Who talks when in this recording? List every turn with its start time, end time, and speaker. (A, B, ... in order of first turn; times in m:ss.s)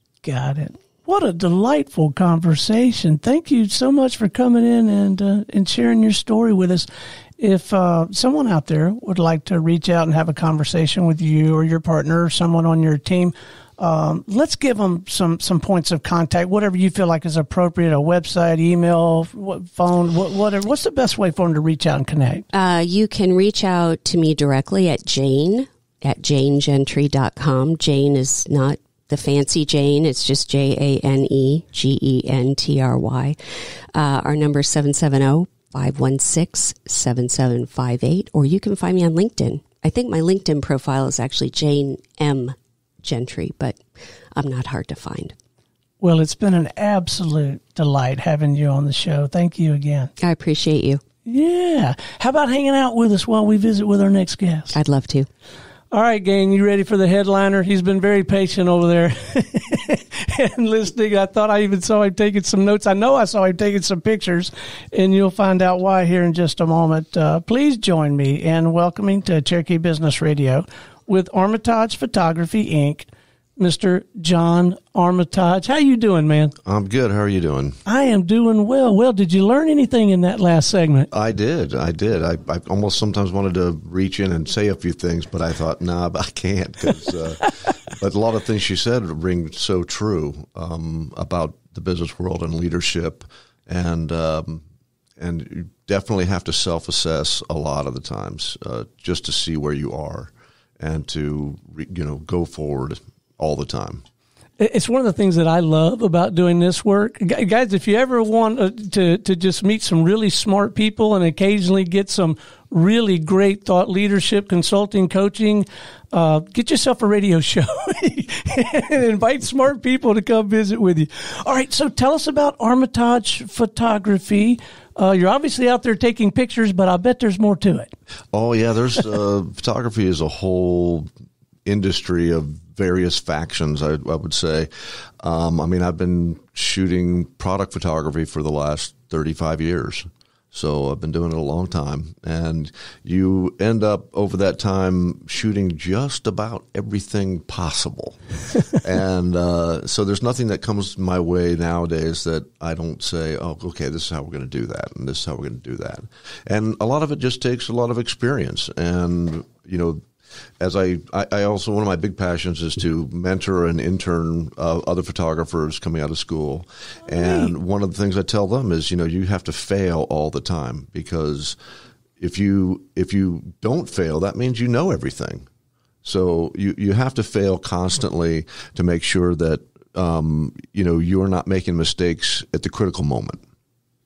0:00.2-0:06.9 A
0:07.4-0:22.4 A
0:22.5-0:33.4 B
0:33.9-0:43.8 B
0:44.4-0:45.3 B
0:46.0-0:50.1 A
0:50.2-0:51.0 B
0:51.2-0:54.8 A
0:54.7-0:55.3 B
0:55.9-1:16.5 A
1:16.6-1:17.8 C
1:17.8-1:21.1 A
1:21.1-1:34.6 C
1:35.2-1:44.0 C
1:44.6-2:07.9 A
2:08.3-2:11.1 C
2:11.6-2:40.0 C
2:40.6-2:51.6 C
2:47.2-2:47.5 A
2:52.2-2:55.4 C
2:56.0-3:03.4 C